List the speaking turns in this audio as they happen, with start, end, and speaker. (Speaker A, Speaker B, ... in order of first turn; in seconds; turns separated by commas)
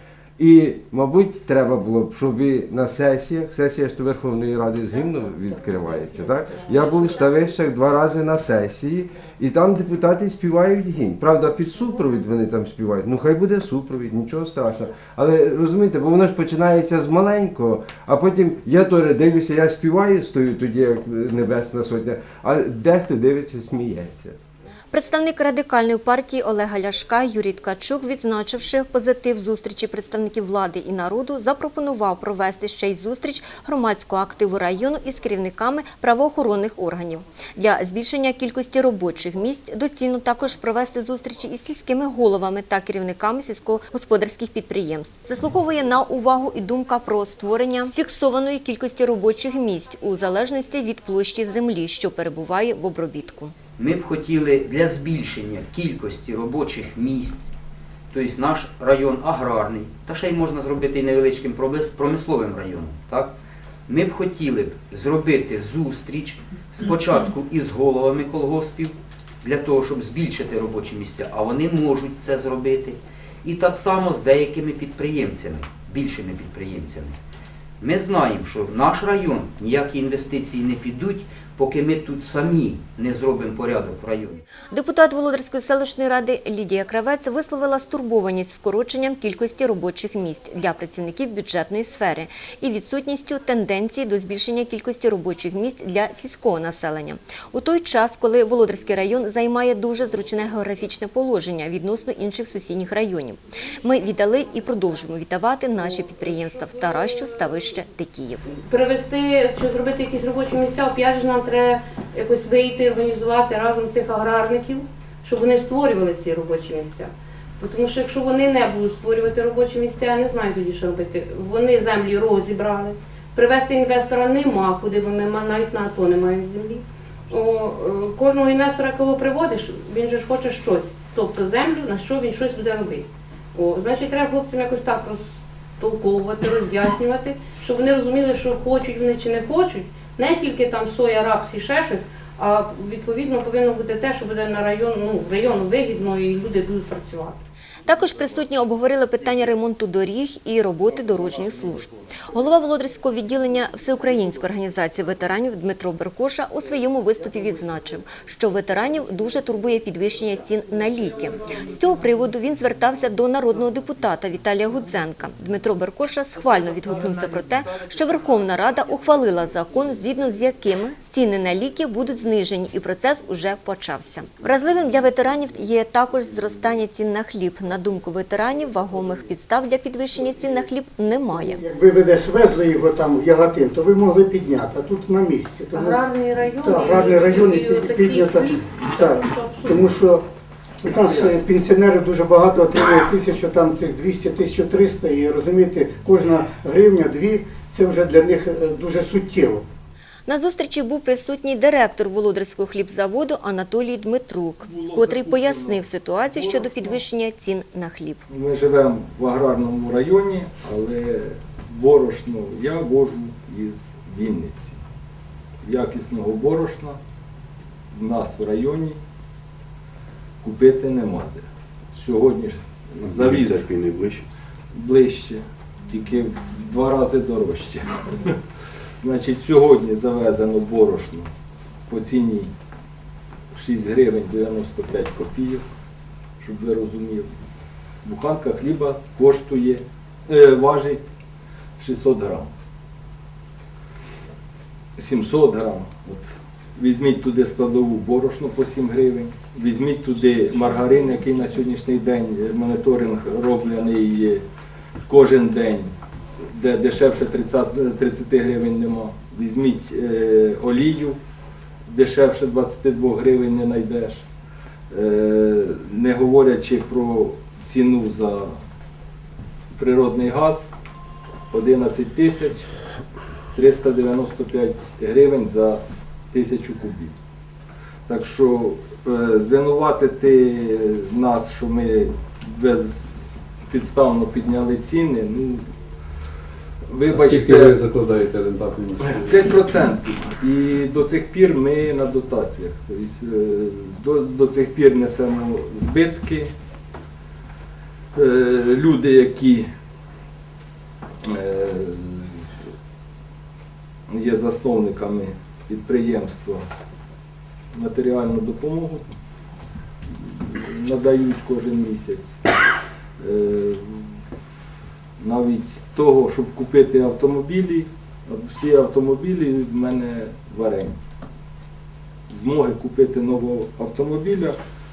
Speaker A: 0.4-24.4, Speaker B: 24.9-53.5, Speaker C: 53.8-57.4, Speaker C: 58.1-63.3, Speaker C: 63.9-77.1, Speaker C: 77.8-84.4, Speaker B: 84.7-108.4, Speaker D: 108.6-147.4, Speaker B: 147.8-181.6, Speaker E: 181.3-186.0, Speaker D: 185.7-189.9, Speaker E: 186.6-190.2, Speaker E: 190.8-199.6, Speaker F: 190.9-191.4, Speaker B: 200.3-208.2, Speaker F: 204.7-207.0, Speaker F: 208.3-214.8, Speaker F: 215.6-217.0, Speaker F: 217.9-219.0, Speaker F: 220.4-223.7, Speaker F: 224.7-228.3, Speaker F: 229.0-231.3, Speaker F: 231.9-232.5, Speaker F: 233.5-235.6, Speaker F: 236.4-237.3, Speaker F: 238.0-241.0, Speaker F: 241.8-242.5, Speaker F: 245.0-254.4, Speaker F: 255.1-255.9, Speaker F: 256.5-261.2, Speaker F: 261.9-264.2, Speaker F: 264.9-268.5, Speaker F: 269.8-270.7, Speaker F: 271.5-272.7, Speaker F: 273.5-277.1, Speaker F: 278.1-285.6, Speaker F: 286.9-287.8, Speaker G: 287.1-289.7, Speaker F: 289.0-296.5, Speaker F: 298.1-299.6, Speaker F: 301.2-302.4, Speaker F: 304.1-306.6, Speaker F: 307.7-309.1, Speaker F: 310.1-312.4, Speaker F: 313.2-314.1, Speaker F: 315.2-320.9, Speaker F: 322.3-324.6